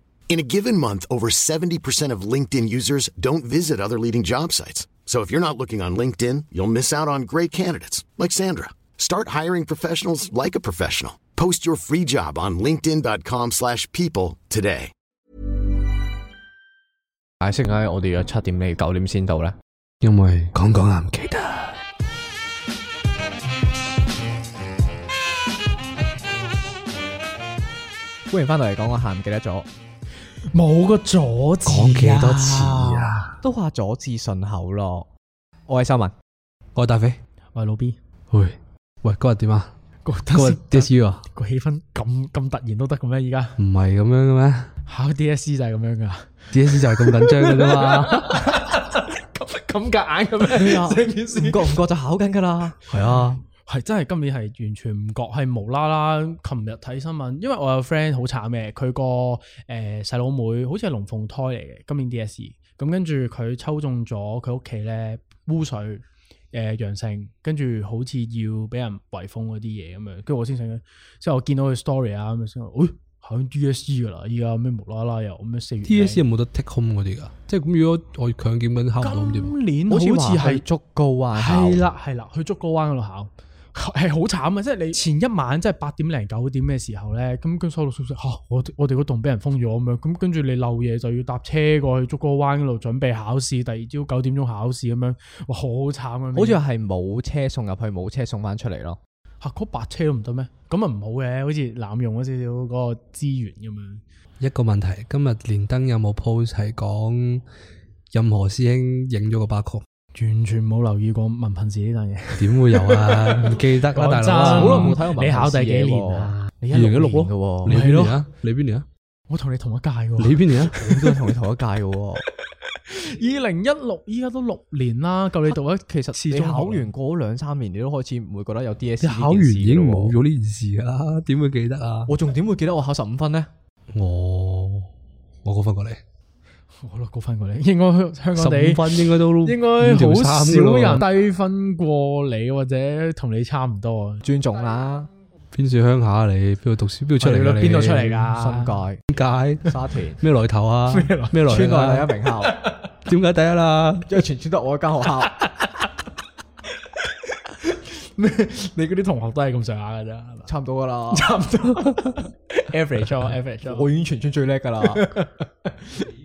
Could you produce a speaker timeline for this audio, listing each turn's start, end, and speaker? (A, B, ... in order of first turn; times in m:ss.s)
0:00.3-0:14.9 A
0:17.4-0:19.6 B
0:20.0-0:21.8 C
0:28.3-0:29.7 B
0:30.5-0:33.1 D
0:31.6-0:33.3 C
0:33.4-0:35.1 B
0:35.7-0:36.1 B
0:36.7-0:37.2 C
0:37.5-0:38.0 D
0:38.3-0:39.7 C
0:40.0-0:43.6 D
0:40.3-0:41.2 C
0:43.6-0:44.7 C
0:44.9-0:51.8 D
0:46.5-0:48.6 C
0:50.5-0:52.8 B
0:52.9-0:53.4 C
0:52.9-1:16.2 D
1:15.8-1:19.5 C
1:19.0-1:20.6 D
1:19.9-1:21.9 B
1:21.3-1:36.6 D
1:36.3-1:39.0 B
1:39.4-1:44.0 D
1:44.4-1:47.4 C
1:48.1-1:49.8 C
1:50.1-1:58.2 D
1:52.4-1:55.0 C
1:54.2-1:57.8 B
1:56.7-1:58.8 C
1:59.3-2:01.2 D
2:00.2-2:00.8 C
2:00.7-2:02.2 B
2:02.7-2:06.9 D
2:05.4-2:10.2 B
2:09.0-2:12.1 C
2:12.1-2:13.5 B
2:13.9-2:14.9 C
2:15.4-2:16.0 C
2:16.8-2:24.2 D
2:18.4-2:21.1 C
2:24.2-2:25.1 B
2:25.5-2:28.1 C
2:27.2-2:28.8 D
2:28.1-2:29.0 B
2:29.1-2:32.1 C
2:29.6-2:30.2 B
2:30.9-2:31.7 D
2:31.4-2:32.5 B
2:32.4-2:32.8 D
2:33.0-2:34.1 C
2:34.1-2:35.4 B
2:35.3-2:35.9 D
2:37.0-2:40.5 D
2:40.4-2:41.3 B
2:41.1-2:43.9 D
2:43.6-2:45.1 B
2:44.9-2:46.0 D